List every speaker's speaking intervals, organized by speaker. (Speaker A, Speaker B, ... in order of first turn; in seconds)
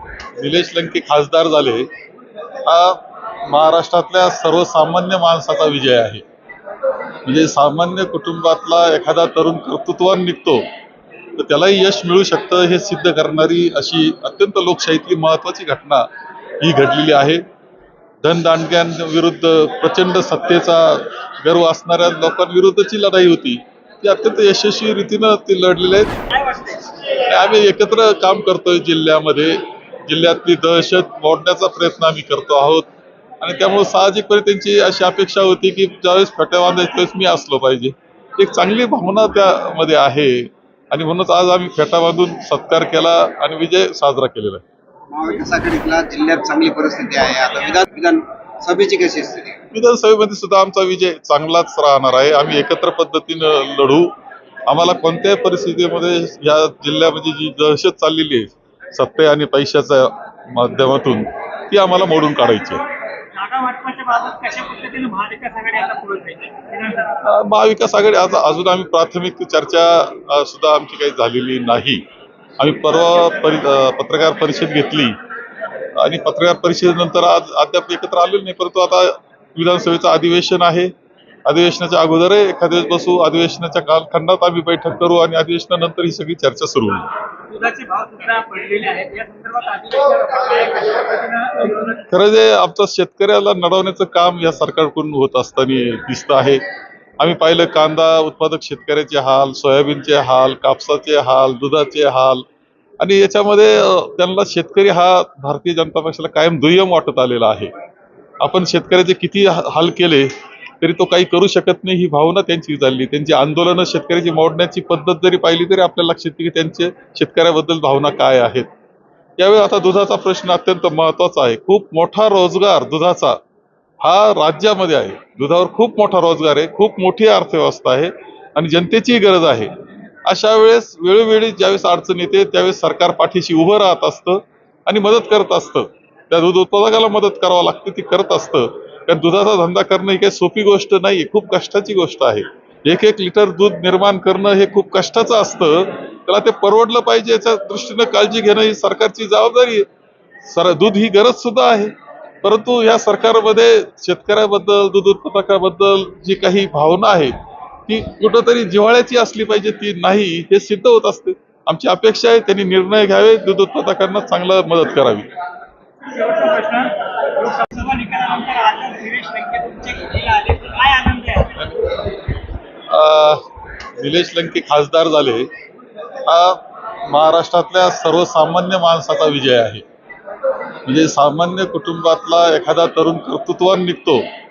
Speaker A: 0.4-1.9, 2.6-6.2, 7.2-10.6, 11.4-16.1, 16.6-17.4, 18.2-32.9, 33.4-44.6, 49.7-54.1, 54.7-62.8, 67.2-72.0, 72.6-75.1, 76.0-80.9, 81.5-87.1, 91.6-96.6, 97.2-102.4, 103.0-107.7, 108.4-118.7, 119.4-123.4, 124.0-129.7, 130.2-149.9, 150.4-157.3, 157.8-165.3, 171.5-172.0, 172.9-173.4, 174.0-175.5, 176.2-179.8, 180.8-184.3
Speaker B: 45.1-49.6
Speaker C: 63.3-67.2, 87.5-92.0, 166.0-171.5